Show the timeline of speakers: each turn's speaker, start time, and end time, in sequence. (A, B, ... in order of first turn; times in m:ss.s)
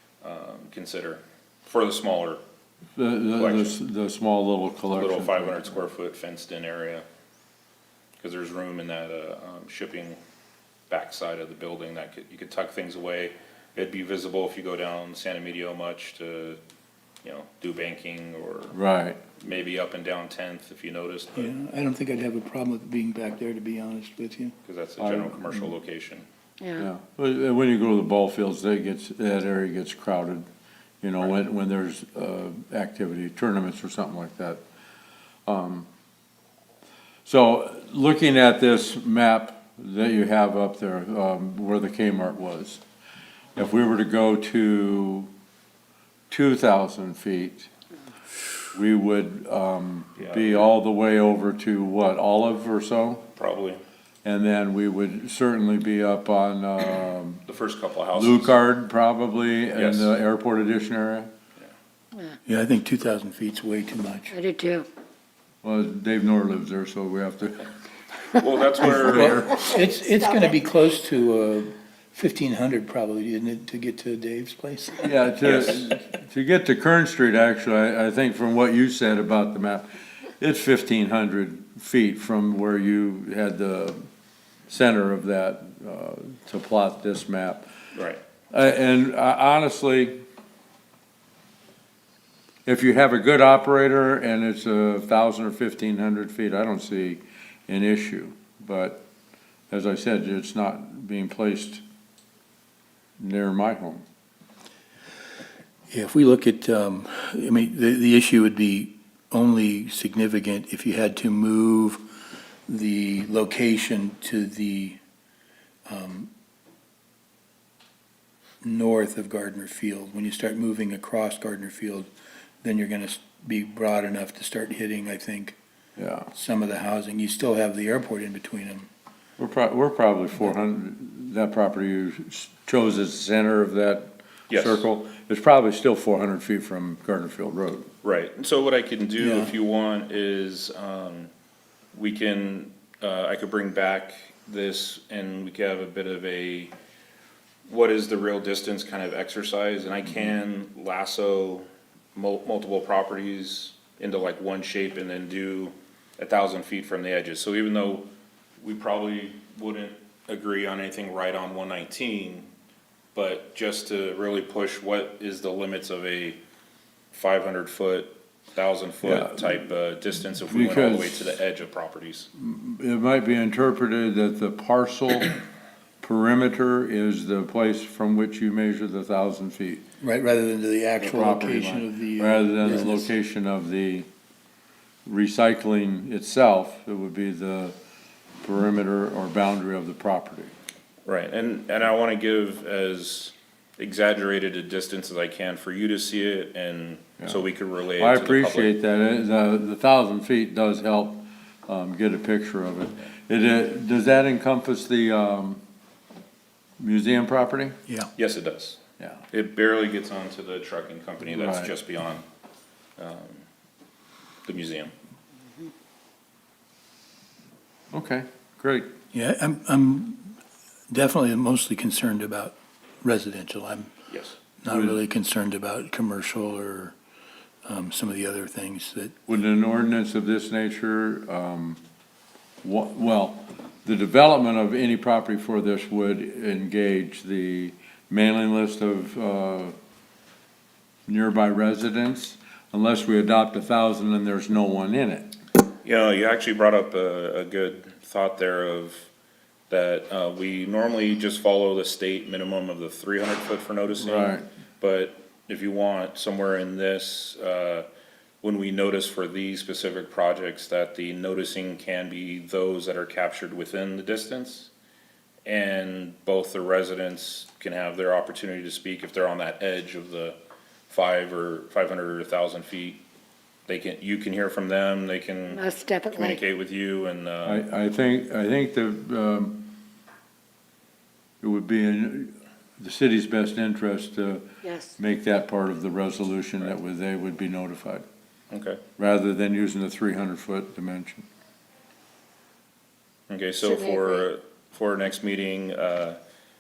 0:00.2-0:02.4 A
0:03.0-0:05.7 B
0:03.3-0:03.8 A
0:04.9-0:07.0 A
0:08.2-0:10.2 A
0:10.9-0:16.6 A
0:17.2-0:18.8 A
0:18.7-0:19.2 B
0:19.4-0:21.5 A
0:21.4-0:24.6 C
0:24.6-0:26.3 A
0:25.0-0:25.7 B
0:26.8-0:30.5 B
0:31.0-0:34.6 B
0:35.5-0:35.9 B
0:37.3-0:42.8 B
0:43.6-0:45.3 B
0:46.3-0:47.7 B
0:48.7-0:53.3 B
0:50.2-0:50.7 A
0:53.4-0:53.8 A
0:54.2-0:57.4 B
0:57.5-0:58.6 A
0:58.1-1:01.3 B
0:59.7-1:00.1 A
1:02.5-1:04.4 C
1:04.3-1:04.9 D
1:05.6-1:07.7 B
1:08.3-1:09.5 A
1:08.8-1:15.1 C
1:08.9-1:09.4 B
1:15.0-1:19.9 B
1:15.4-1:15.9 A
1:20.4-1:24.0 B
1:24.7-1:27.6 B
1:28.0-1:28.2 A
1:28.5-1:30.2 B
1:32.7-1:39.0 B
1:39.7-1:41.8 B
1:43.2-1:44.0 B
1:45.9-1:52.0 C
1:52.7-1:55.0 C
1:55.9-1:56.3 C
1:58.6-2:02.1 C
2:02.6-2:05.6 C
2:06.0-2:06.3 B
2:06.3-2:08.9 C
2:09.4-2:17.9 B
2:14.5-2:14.9 A
2:18.0-2:21.3 A
2:19.2-2:19.5 C
2:21.9-2:26.7 A
2:27.7-2:38.1 A
2:38.6-2:42.5 A
2:43.2-2:46.4 A
2:47.1-2:52.3 A
2:49.0-2:49.4 B
2:50.5-2:51.4 B
2:52.4-2:55.4 B
2:56.0-2:59.8 B
3:00.0-3:03.1 C
3:01.0-3:04.1 B
3:05.1-3:07.8 B
3:08.4-3:10.5 B
3:11.1-3:18.7 A
3:18.0-3:25.6 B
3:26.8-3:27.8 B
3:28.2-3:28.8 A
3:29.3-3:32.2 A
3:31.3-3:31.7 B
3:33.0-3:33.4 A
3:34.4-3:34.9 A
3:37.9-3:38.9 B
3:39.1-3:40.4 C
3:40.9-3:43.9 C
3:44.1-3:44.4 A
3:44.6-3:47.0 C
3:44.7-3:45.0 B
3:47.6-3:49.2 C
3:49.3-3:51.8 B
3:52.6-3:59.8 B
4:01.1-4:05.3 B
4:05.8-4:09.1 A
4:09.7-4:17.9 A
4:14.0-4:14.5 B
4:18.4-4:24.7 A
4:25.5-4:30.4 A
4:30.9-4:33.0 A
4:33.7-4:37.6 A
4:35.5-4:36.4 D
4:37.4-4:39.8 B
4:41.4-4:48.0 B
4:44.6-4:44.9 D
4:48.5-4:48.8 A
4:49.0-4:51.3 B
4:53.3-4:56.2 A
4:53.6-4:54.2 D